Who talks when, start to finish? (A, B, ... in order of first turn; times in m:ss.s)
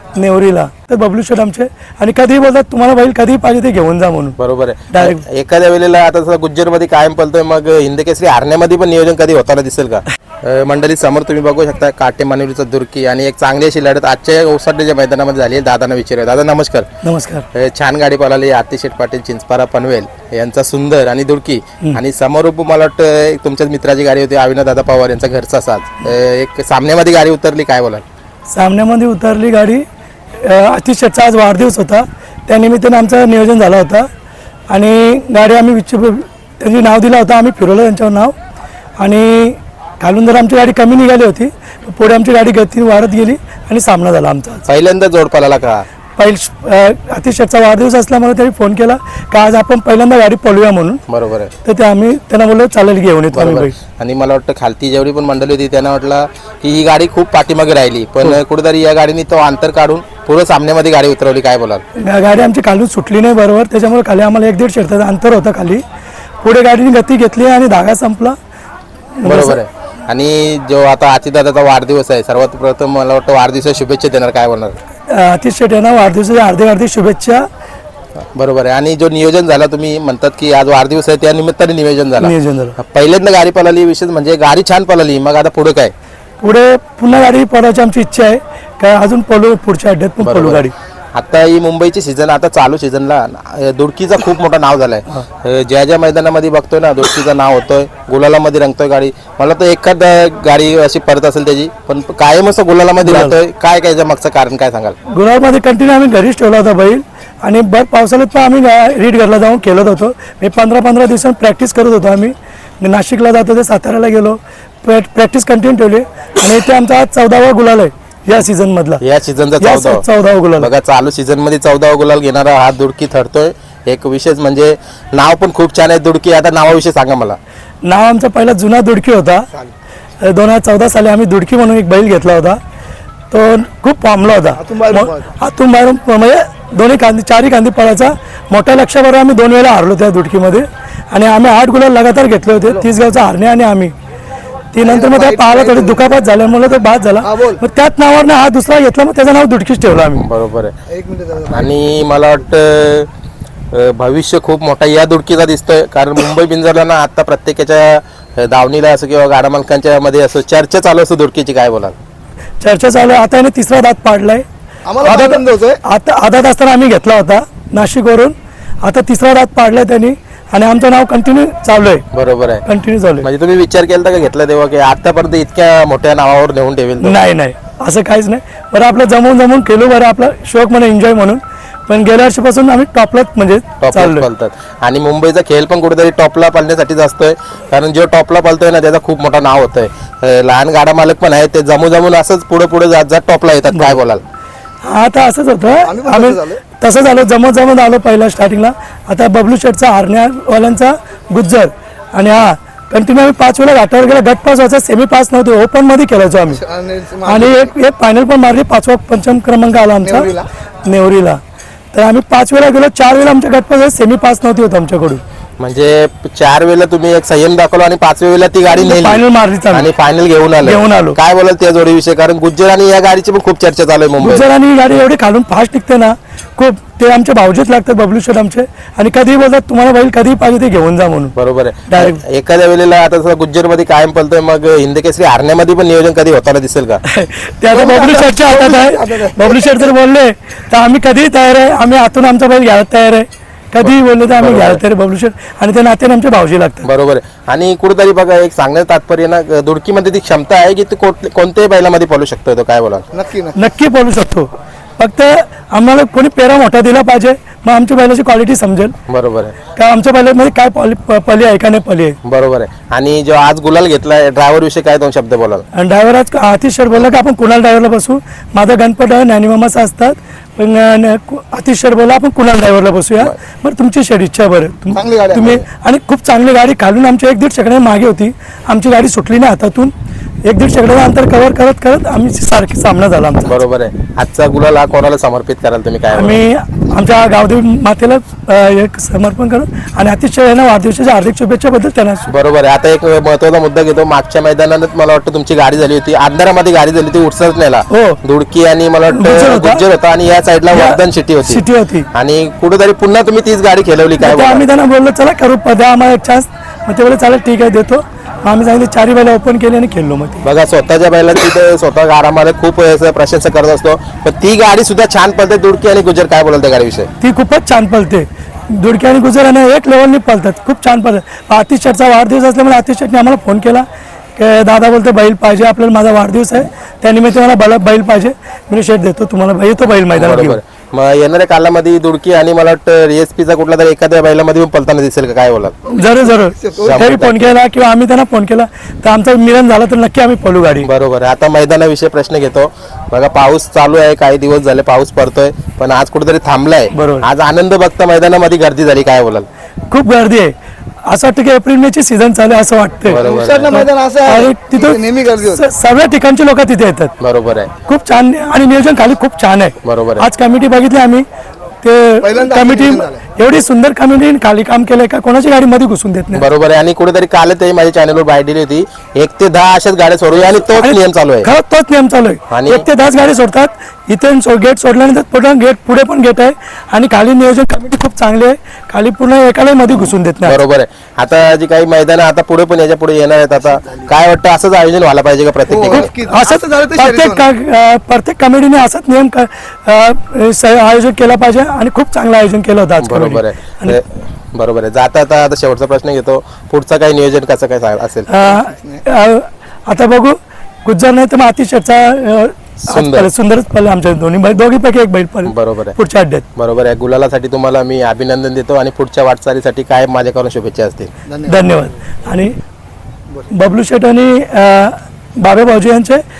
0:00.2-0:04.4 A
0:04.4-0:16.9 B
0:04.9-0:05.2 A
0:17.0-0:17.4 A
0:17.5-0:28.0 B
0:28.5-0:29.8 A
0:30.4-0:34.1 A
0:34.7-0:38.3 A
0:39.0-0:44.6 A
0:44.7-0:45.8 B
0:46.2-0:51.0 A
0:51.1-0:51.5 B
0:51.6-0:53.7 A
0:53.3-1:01.8 B
1:02.0-1:05.8 A
1:06.4-1:08.4 A
1:09.2-1:09.6 A
1:09.2-1:14.8 B
1:15.1-1:17.5 A
1:18.2-1:25.9 B
1:22.2-1:22.8 A
1:26.4-1:30.7 A
1:30.2-1:45.0 B
1:43.0-1:43.4 A
1:45.1-1:59.0 A
1:59.0-2:00.0 B
1:59.6-2:00.7 A
2:00.6-2:07.4 B
2:07.8-2:09.5 A
2:10.2-2:12.6 A
2:13.3-2:23.9 A
2:14.6-2:15.3 C
2:24.7-2:30.2 A
2:24.8-2:26.1 C
2:27.2-2:27.6 C
2:30.2-2:30.7 B
2:30.9-2:32.0 C
2:31.5-2:33.1 B
2:33.7-2:42.0 B
2:42.6-2:44.4 A
2:44.8-2:45.8 C
2:45.0-2:52.0 A
2:52.1-2:52.6 B
2:52.6-2:53.3 A
2:53.2-2:57.2 B
2:57.0-3:04.3 A
3:03.8-3:14.2 B
3:13.7-3:14.0 A
3:14.8-3:26.6 A
3:15.8-3:16.6 C
3:26.5-3:27.7 C
3:27.2-3:30.3 A
3:30.0-3:30.5 C
3:30.8-3:31.4 A
3:31.9-3:35.2 A
3:35.6-3:44.5 B
3:38.7-3:39.9 A
3:40.6-3:41.2 A
3:44.2-3:51.3 A
3:51.4-3:57.0 B
3:51.9-3:52.2 A
3:57.0-4:06.9 A
3:57.7-3:59.9 C
4:03.8-4:04.8 B
4:06.8-4:13.1 B
4:13.1-4:13.6 C
4:13.5-4:18.9 A
4:19.1-4:19.6 B
4:19.7-4:22.2 A
4:22.2-4:25.6 B
4:25.7-4:39.9 A
4:34.9-4:35.6 C
4:40.5-4:43.6 A
4:43.4-4:46.4 B
4:46.1-4:52.3 A
4:52.3-5:04.7 B
4:57.9-4:58.2 A
4:59.1-4:59.8 A
5:00.7-5:02.1 A
5:04.2-5:10.4 A
5:10.4-5:17.1 B
5:17.2-5:23.8 A
5:24.4-5:30.6 A
5:30.1-5:35.8 B
5:35.9-5:37.0 C
5:35.9-5:40.9 A
5:36.8-5:37.5 B
5:40.8-5:49.5 B
5:46.9-5:47.3 A
5:49.9-5:50.5 A
5:51.1-5:57.1 A
5:53.1-5:53.8 B
5:53.2-5:55.6 C
5:57.2-5:57.7 B
5:57.8-6:01.2 A
5:59.8-6:00.3 B
6:01.8-6:06.4 A
6:02.2-6:03.2 C
6:06.3-6:11.5 B
6:10.7-6:20.6 A
6:12.5-6:12.9 B
6:19.9-6:26.1 B
6:25.7-6:27.4 C
6:25.9-6:34.0 A
6:33.0-6:38.4 B
6:38.3-6:46.4 A
6:38.4-6:39.0 C
6:42.8-6:43.3 B
6:45.5-6:46.0 B
6:46.6-6:51.1 B
6:51.3-6:51.9 C
6:51.4-6:52.5 A
6:53.5-6:56.2 A